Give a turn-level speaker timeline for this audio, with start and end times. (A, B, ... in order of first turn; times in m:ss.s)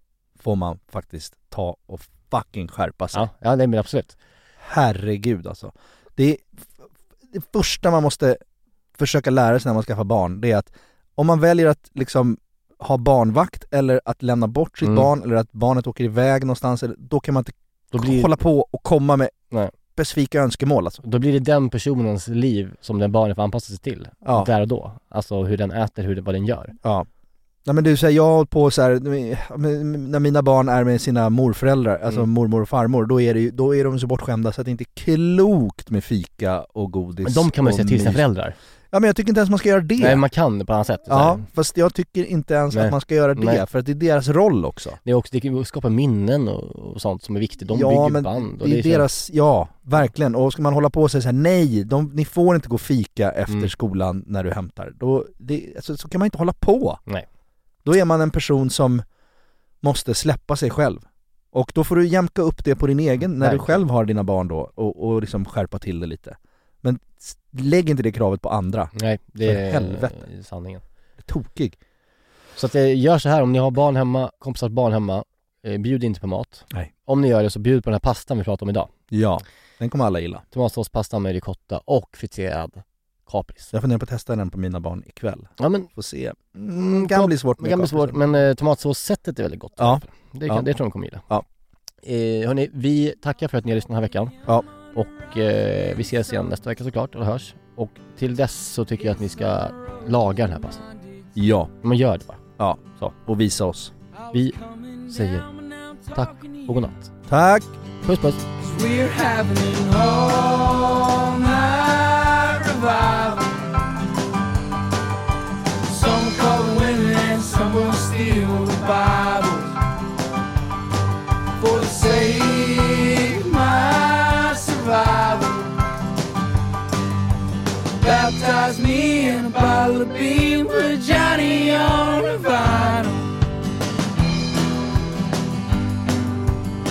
0:00.4-0:03.3 A
0:03.1-0:04.2 B
0:04.6-0:06.7 A
0:07.3-0:08.4 A
0:09.0-0:19.4 A
0:14.8-0:15.1 B
0:17.9-0:18.4 B
0:20.0-0:21.0 A
0:21.0-0:26.8 B
0:24.2-0:24.5 A
0:27.7-0:38.2 A
0:37.2-0:38.6 B
0:38.9-0:40.2 A
0:40.0-0:41.5 B
0:41.1-0:45.0 A
0:42.7-0:43.6 B
0:45.0-0:49.1 B
0:47.7-0:57.0 A
0:57.8-0:59.0 A
0:59.8-1:10.2 A
1:03.4-1:03.8 B
1:09.0-1:10.8 B
1:11.2-1:11.8 A
1:12.6-1:18.9 B
1:19.1-1:20.4 A
1:20.5-1:23.7 B
1:23.7-1:28.2 A
1:25.6-1:25.9 B
1:26.7-1:31.3 B
1:29.8-1:30.7 A
1:32.0-1:34.4 B
1:34.9-1:40.8 B
1:41.4-1:41.7 A
1:41.8-1:42.4 B
1:42.6-1:43.9 A
1:44.3-1:46.8 C
1:45.1-1:45.5 B
1:46.1-1:47.1 B
1:47.3-1:47.8 A
1:48.0-1:48.5 B
1:48.6-1:53.6 C
1:55.9-1:59.7 C
2:01.6-2:05.7 C
2:08.0-2:13.3 C